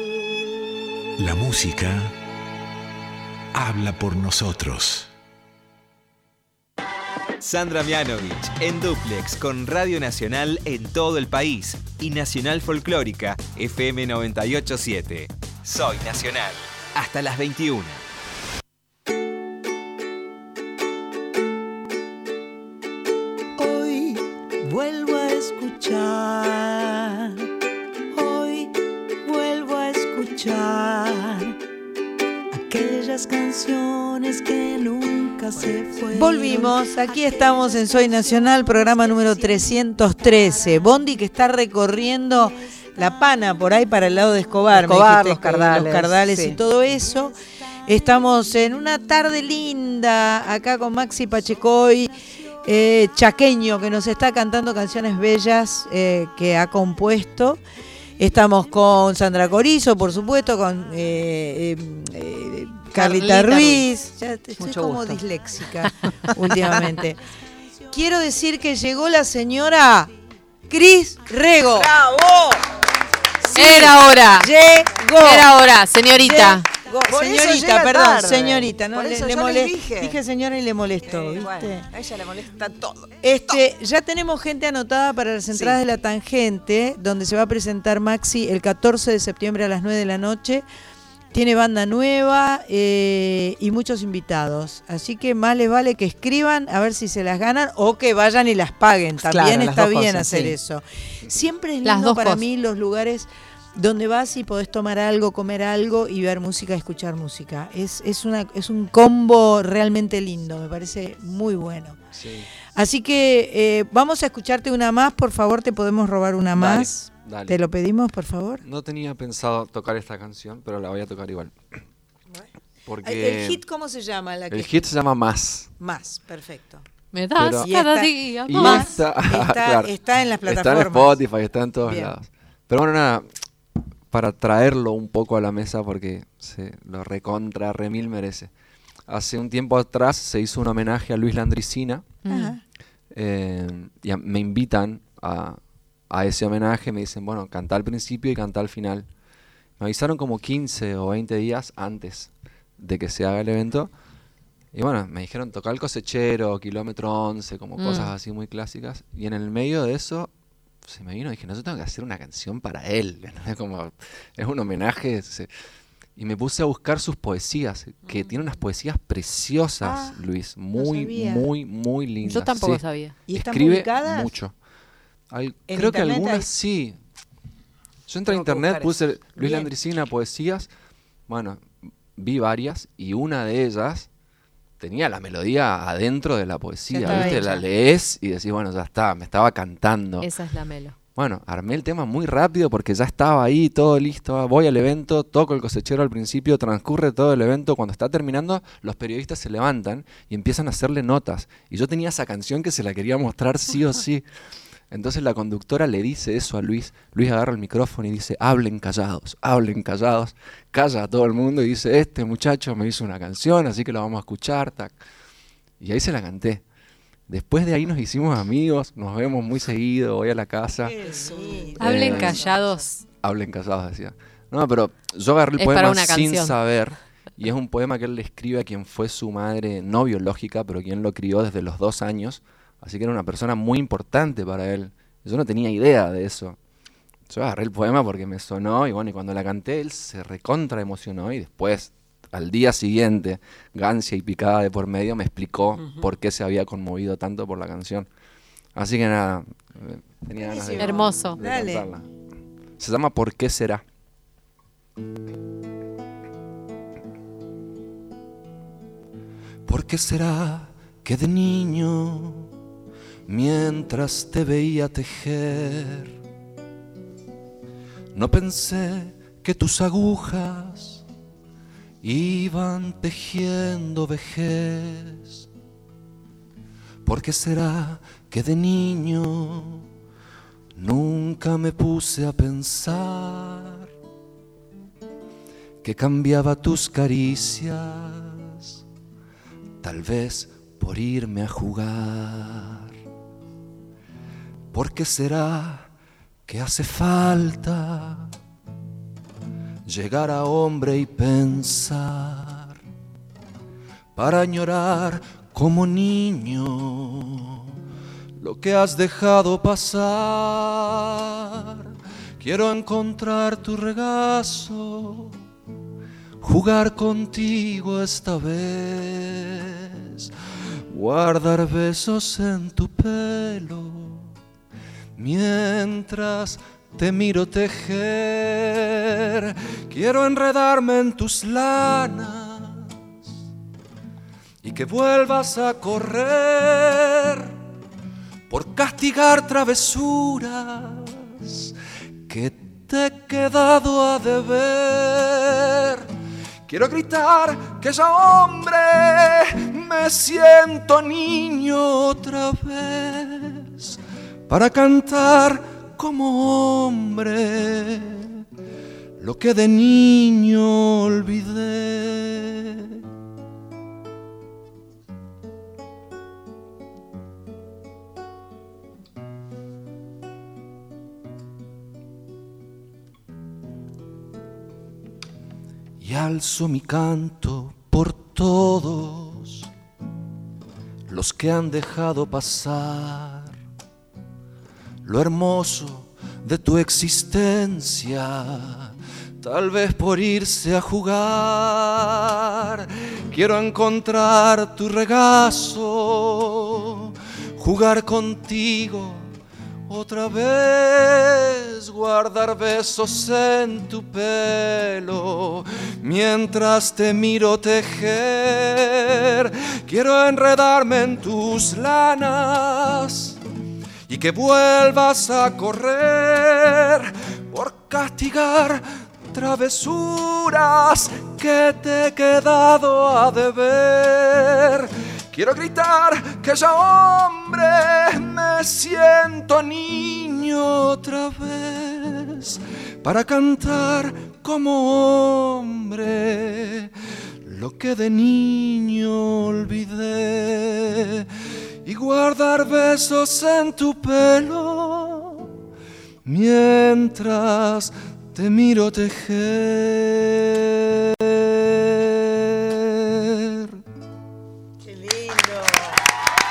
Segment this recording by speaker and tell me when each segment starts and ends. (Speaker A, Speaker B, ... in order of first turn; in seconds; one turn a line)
Speaker A: 1.2-2.1
Speaker A: 3.5-5.0
Speaker B: 7.4-18.0
Speaker C: 23.6-27.4
Speaker C: 28.1-28.7
Speaker C: 29.2-31.5
Speaker C: 32.5-57.6
Speaker D: 35.9-36.7
Speaker D: 44.7-46.6
Speaker C: 58.2-67.2
Speaker E: 62.9-63.8
Speaker D: 64.6-65.2
Speaker C: 67.9-70.1
Speaker C: 70.7-71.9
Speaker D: 71.7-72.6
Speaker C: 73.5-75.5
Speaker E: 73.5-74.5
Speaker E: 75.2-76.7
Speaker C: 76.2-81.9
Speaker D: 77.1-80.2
Speaker D: 81.0-83.6
Speaker C: 83.2-90.6
Speaker D: 85.5-85.8
Speaker C: 91.3-112.0
Speaker D: 99.2-100.5
Speaker E: 101.8-102.4
Speaker F: 112.1-112.5
Speaker C: 112.7-118.6
Speaker F: 116.5-117.6
Speaker F: 118.6-121.7
Speaker F: 122.8-123.6
Speaker C: 123.0-124.8
Speaker F: 124.5-125.7
Speaker C: 125.8-126.8
Speaker E: 127.1-128.9
Speaker F: 127.4-127.8
Speaker C: 127.6-131.2
Speaker F: 128.4-129.9
Speaker F: 130.4-133.3
Speaker C: 131.8-132.1
Speaker F: 134.1-138.5
Speaker F: 139.1-142.1
Speaker E: 142.2-142.5
Speaker C: 142.3-142.6
Speaker F: 143.1-149.1
Speaker F: 149.8-153.9
Speaker F: 154.7-160.3
Speaker E: 157.8-158.1
Speaker F: 160.8-165.5
Speaker F: 166.2-174.5
Speaker C: 169.8-170.2
Speaker C: 170.8-171.5
Speaker E: 172.2-173.1
Speaker C: 173.3-174.3
Speaker F: 175.3-177.0
Speaker C: 175.7-176.5
Speaker F: 178.1-180.7
Speaker D: 178.2-179.7
Speaker F: 181.3-184.1
Speaker F: 184.8-190.3
Speaker C: 186.9-187.6
Speaker E: 190.2-190.9
Speaker F: 191.1-204.2
Speaker F: 204.9-215.0
Speaker F: 215.8-216.6
Speaker F: 217.3-220.9
Speaker C: 220.8-222.6
Speaker D: 221.1-221.8
Speaker E: 221.8-223.0
Speaker F: 221.8-222.4
Speaker F: 223.2-236.6
Speaker E: 225.6-226.6
Speaker F: 237.3-248.1
Speaker D: 245.8-246.1
Speaker F: 248.8-252.1
Speaker C: 250.3-251.9
Speaker E: 250.8-251.4
Speaker F: 252.8-253.8
Speaker F: 259.6-262.5
Speaker F: 263.3-266.1
Speaker F: 268.1-271.0
Speaker F: 272.0-275.4
Speaker F: 277.1-279.9
Speaker F: 280.8-283.9
Speaker F: 285.8-288.6
Speaker F: 289.8-292.9
Speaker F: 294.7-295.9
Speaker F: 296.5-298.3
Speaker F: 299.9-302.8
Speaker F: 304.1-307.6
Speaker F: 308.4-311.8
Speaker F: 312.4-315.3
Speaker F: 316.4-320.3
Speaker F: 320.9-324.3
Speaker F: 325.2-332.9
Speaker F: 334.6-337.5
Speaker F: 338.5-341.7
Speaker F: 342.3-346.1
Speaker F: 346.7-354.0
Speaker F: 354.5-358.4
Speaker F: 359.2-363.0
Speaker F: 376.0-379.7
Speaker F: 381.1-383.6
Speaker F: 385.0-399.2
Speaker F: 399.9-413.4
Speaker F: 414.1-436.9
Speaker F: 437.4-441.2
Speaker F: 441.8-445.4
Speaker F: 446.2-453.8
Speaker C: 454.8-456.0